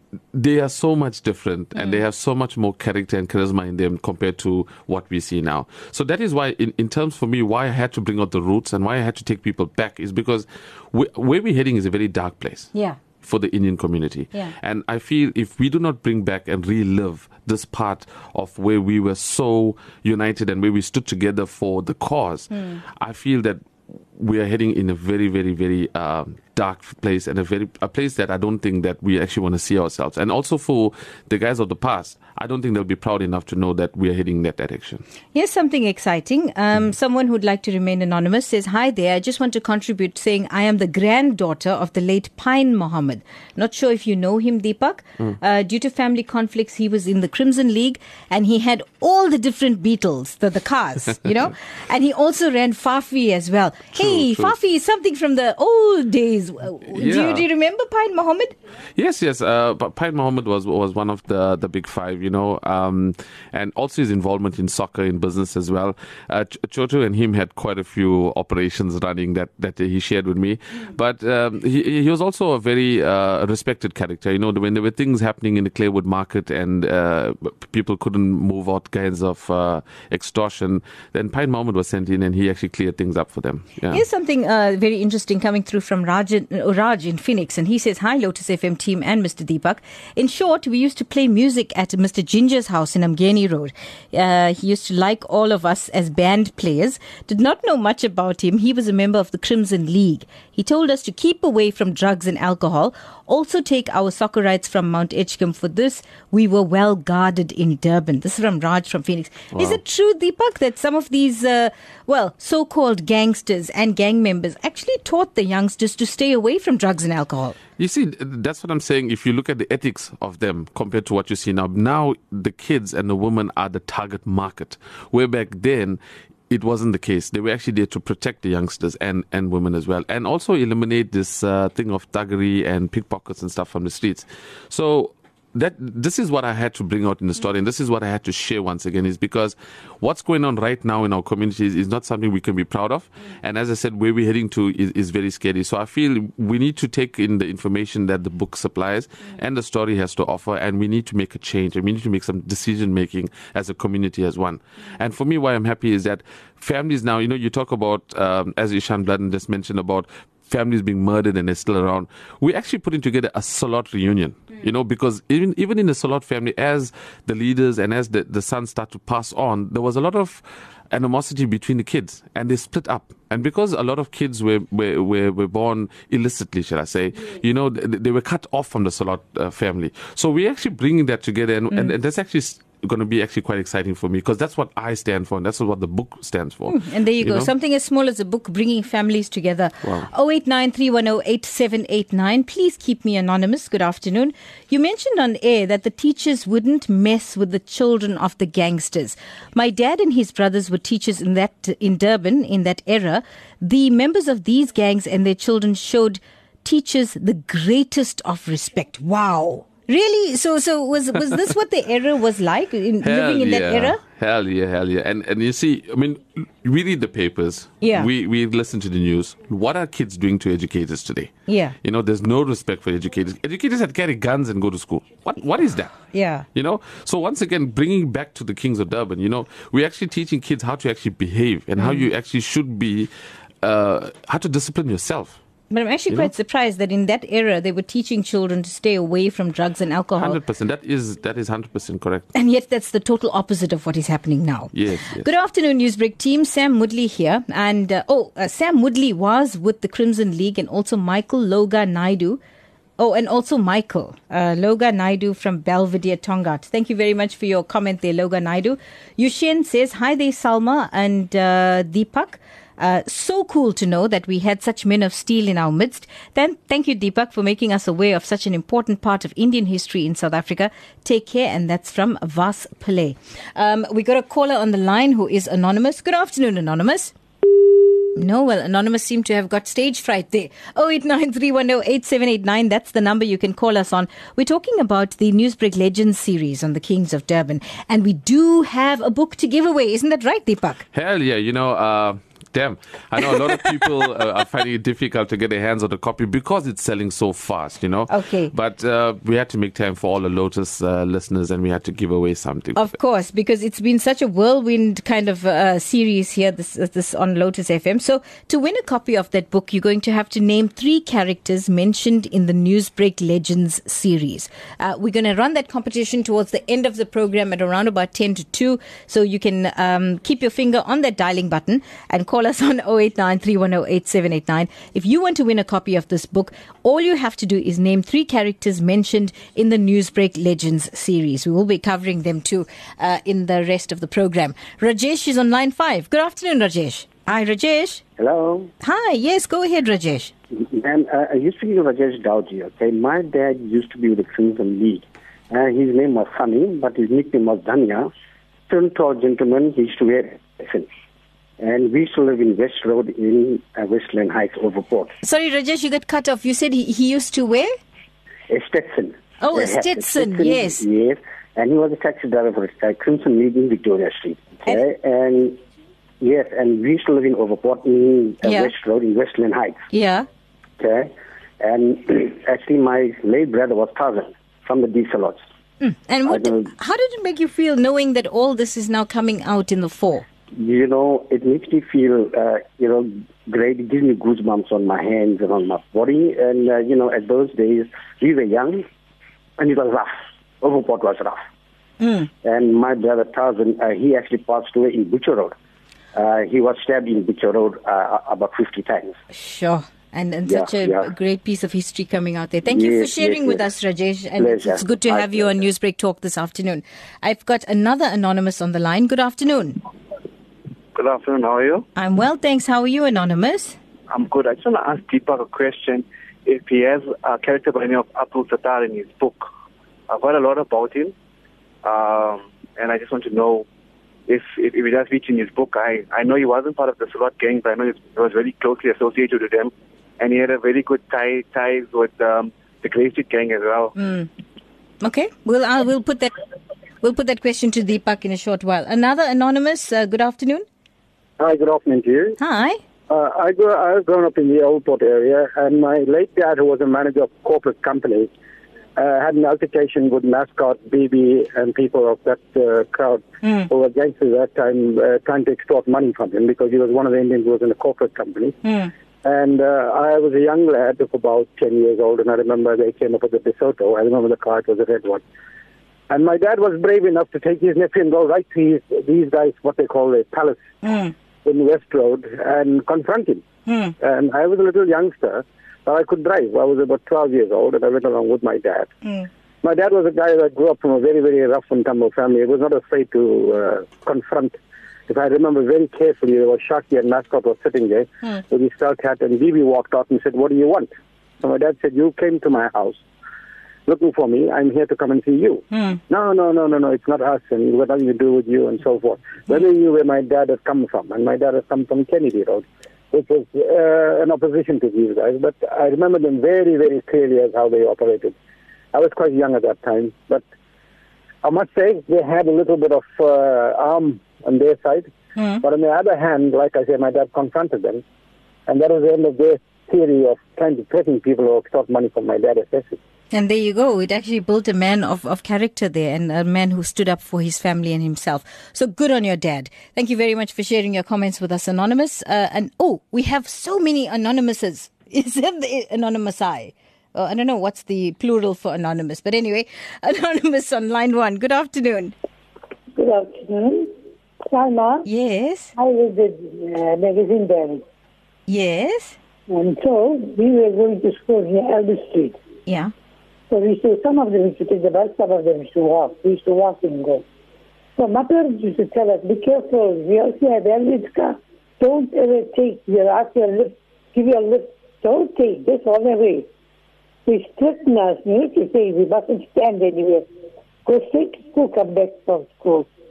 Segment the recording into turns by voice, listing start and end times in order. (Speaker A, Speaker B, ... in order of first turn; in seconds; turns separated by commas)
Speaker A: 0.3-12.7, Speaker A: 13.2-35.0, Speaker B: 22.5-22.8, Speaker B: 35.3-58.5, Speaker A: 54.0-54.5, Speaker A: 56.9-57.4, Speaker A: 58.9-84.0, Speaker B: 83.9-117.6, Speaker A: 117.8-187.5, Speaker B: 186.7-214.0, Speaker A: 213.0-226.0, Speaker B: 217.8-218.1, Speaker B: 221.5-221.7, Speaker B: 226.1-226.4, Speaker A: 226.5-233.1, Speaker B: 231.8-232.1, Speaker A: 233.6-235.4, Speaker B: 235.7-240.4, Speaker A: 240.2-242.3, Speaker B: 242.3-252.4, Speaker A: 244.7-245.3, Speaker B: 253.0-277.1, Speaker B: 278.1-290.8, Speaker A: 290.9-302.9, Speaker B: 298.1-298.5, Speaker B: 302.8-338.0, Speaker C: 338.2-338.7, Speaker B: 338.8-340.3, Speaker C: 340.5-348.1, Speaker C: 348.7-350.9, Speaker C: 351.6-355.1, Speaker B: 355.2-357.7, Speaker C: 358.5-365.6, Speaker B: 359.4-360.8, Speaker C: 366.2-369.8, Speaker B: 368.4-368.7, Speaker B: 369.9-370.2, Speaker C: 370.8-375.4, Speaker B: 375.8-380.2, Speaker C: 376.3-376.7, Speaker C: 380.5-388.8, Speaker C: 389.6-391.4, Speaker B: 392.0-392.3, Speaker C: 392.4-395.5, Speaker C: 396.1-399.2, Speaker B: 399.3-409.8, Speaker C: 400.5-401.1, Speaker C: 402.7-403.7, Speaker C: 404.4-405.6, Speaker D: 410.9-411.8, Speaker B: 411.9-413.8, Speaker D: 414.2-419.4, Speaker D: 420.2-421.1, Speaker D: 421.9-423.6, Speaker D: 424.3-429.7, Speaker D: 430.2-433.9, Speaker B: 433.9-434.3, Speaker B: 435.0-436.3, Speaker B: 437.0-440.6, Speaker E: 441.4-442.4, Speaker B: 442.4-442.8, Speaker E: 443.1-448.3, Speaker E: 448.9-458.6, Speaker B: 453.4-453.7, Speaker B: 458.6-458.9, Speaker E: 459.2-465.2, Speaker E: 466.1-470.6, Speaker B: 470.8-471.1, Speaker E: 471.4-473.4, Speaker B: 473.7-473.9, Speaker E: 474.0-478.9, Speaker E: 479.6-490.9, Speaker E: 491.4-493.0, Speaker E: 493.9-508.3, Speaker B: 495.7-496.0, Speaker E: 508.9-510.4, Speaker E: 511.4-518.0, Speaker B: 515.4-515.6, Speaker E: 518.7-523.0, Speaker B: 523.3-542.1, Speaker F: 542.9-543.9, Speaker F: 544.4-545.0, Speaker B: 545.0-545.7, Speaker F: 545.8-547.8, Speaker B: 548.5-549.2, Speaker F: 549.5-552.4, Speaker B: 552.7-552.9, Speaker F: 553.5-557.2, Speaker F: 558.0-566.5, Speaker F: 567.2-570.3, Speaker F: 570.8-572.9